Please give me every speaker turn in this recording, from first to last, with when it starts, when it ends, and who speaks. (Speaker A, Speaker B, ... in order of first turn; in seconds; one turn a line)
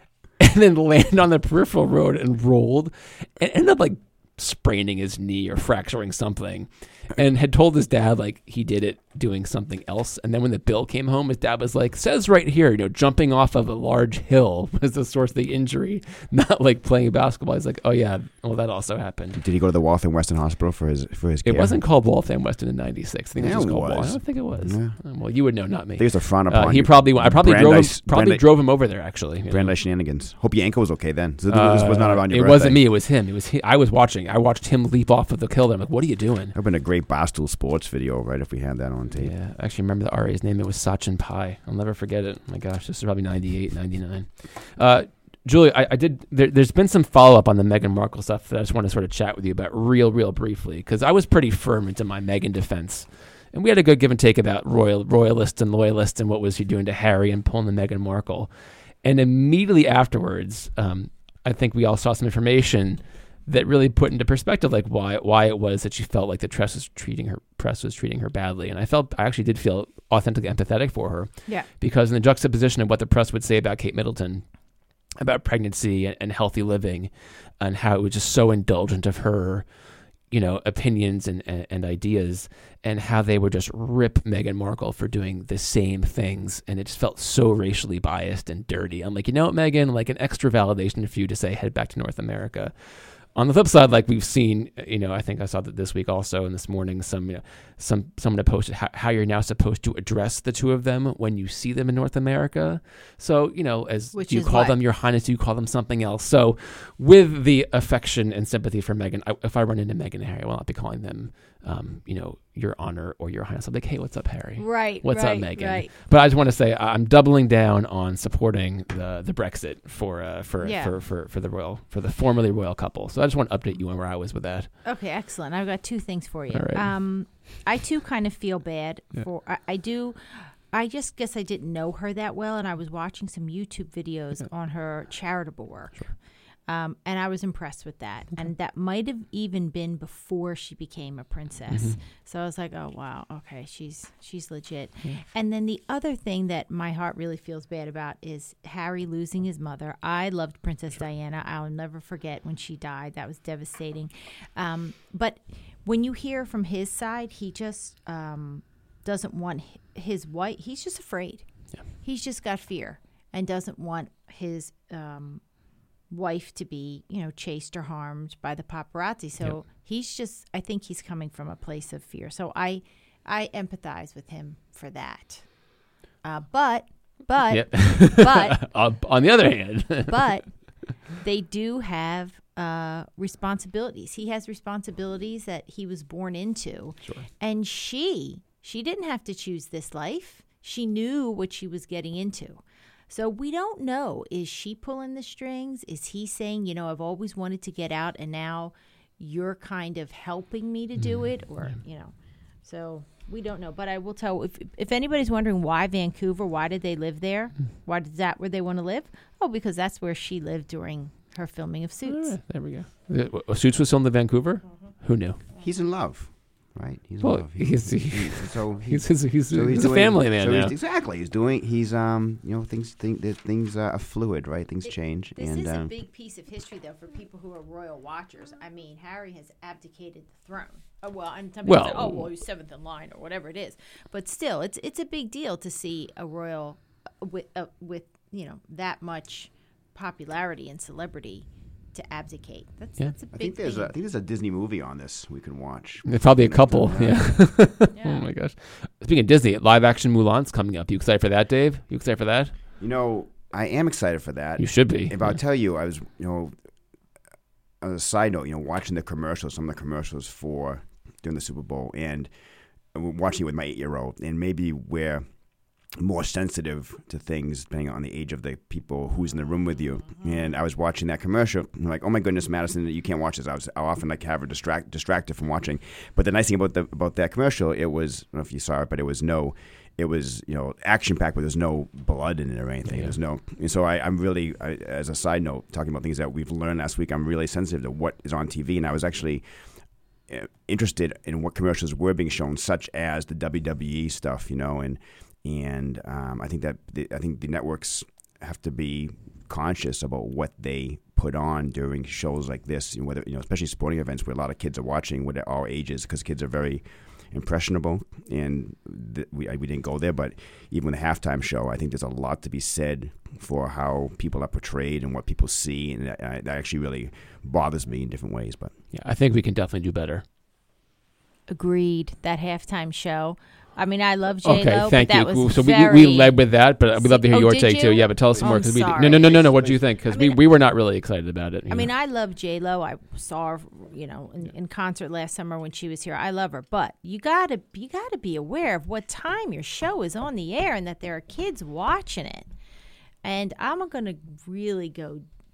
Speaker A: 0.4-19.4
Speaker B: 19.4-21.8
Speaker A: 21.4-29.7
Speaker B: 23.4-25.0
Speaker B: 26.0-28.4
Speaker B: 29.5-32.8
Speaker A: 31.5-36.5
Speaker B: 36.5-39.3
Speaker A: 39.2-58.5
Speaker A: 59.0-74.4
Speaker A: 75.2-79.7
Speaker A: 80.3-124.7
Speaker C: 104.1-104.8
Speaker C: 114.6-115.9
Speaker C: 120.6-120.9
Speaker C: 124.8-136.2
Speaker A: 126.5-126.9
Speaker C: 136.7-161.5
Speaker A: 141.7-142.0
Speaker C: 162.0-165.4
Speaker C: 166.1-175.6
Speaker C: 176.2-178.7
Speaker A: 177.5-180.3
Speaker C: 180.1-202.1
Speaker A: 201.0-201.7
Speaker C: 202.6-212.3
Speaker A: 212.1-215.4
Speaker B: 215.6-225.9
Speaker A: 217.2-220.7
Speaker C: 224.9-243.9
Speaker A: 231.6-232.3
Speaker B: 243.3-247.4
Speaker A: 246.1-252.5
Speaker C: 247.9-248.3
Speaker B: 252.8-256.5
Speaker A: 254.6-255.4
Speaker B: 257.8-262.3
Speaker B: 262.9-265.2
Speaker B: 266.0-289.4
Speaker A: 282.9-283.1
Speaker B: 290.3-318.7
Speaker A: 318.9-320.2
Speaker C: 321.5-330.5
Speaker A: 324.4-331.9
Speaker B: 328.3-329.8
Speaker C: 331.7-342.5
Speaker C: 343.2-345.2